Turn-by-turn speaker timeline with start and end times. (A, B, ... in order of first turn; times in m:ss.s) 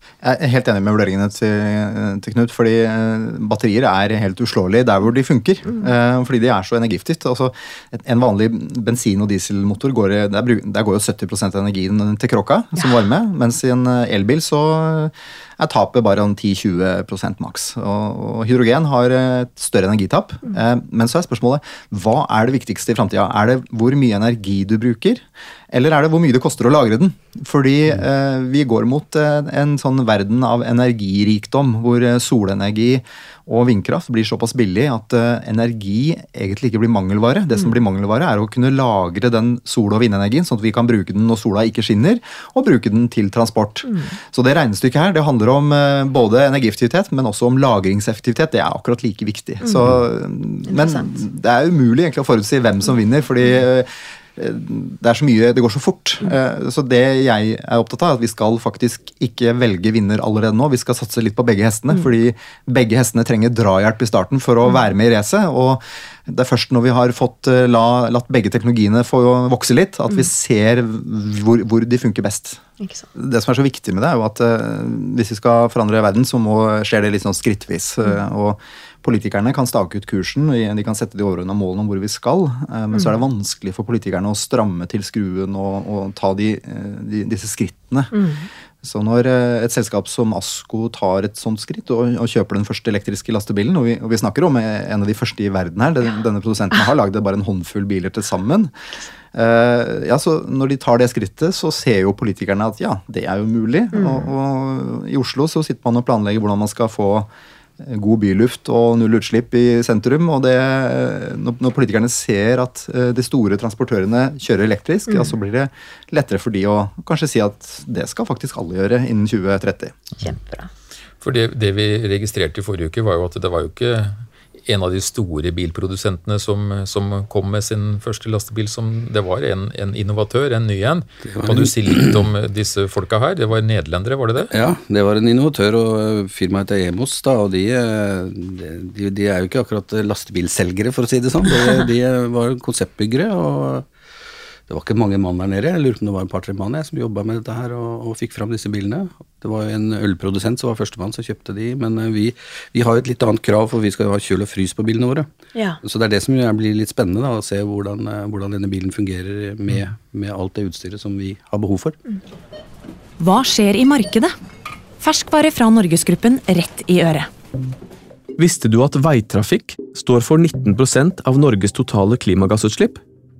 0:00.2-1:12.6 A
0:50.7-0:51.1 B
1:12.8-1:13.1 B
1:13.2-1:28.2 A
1:28.2-1:28.4 B
1:28.8-1:38.7 A
1:39.3-1:47.3 A
1:44.0-1:44.3 B
1:47.8-2:00.0 A
2:00.2-2:00.7 B
2:01.2-2:14.5 C
2:11.4-2:12.2 D
2:14.5-2:23.9 D
2:24.7-2:35.3 D
2:35.8-2:42.0 D
2:43.2-2:44.4 E
2:45.0-2:47.3 E
2:48.4-2:53.0 F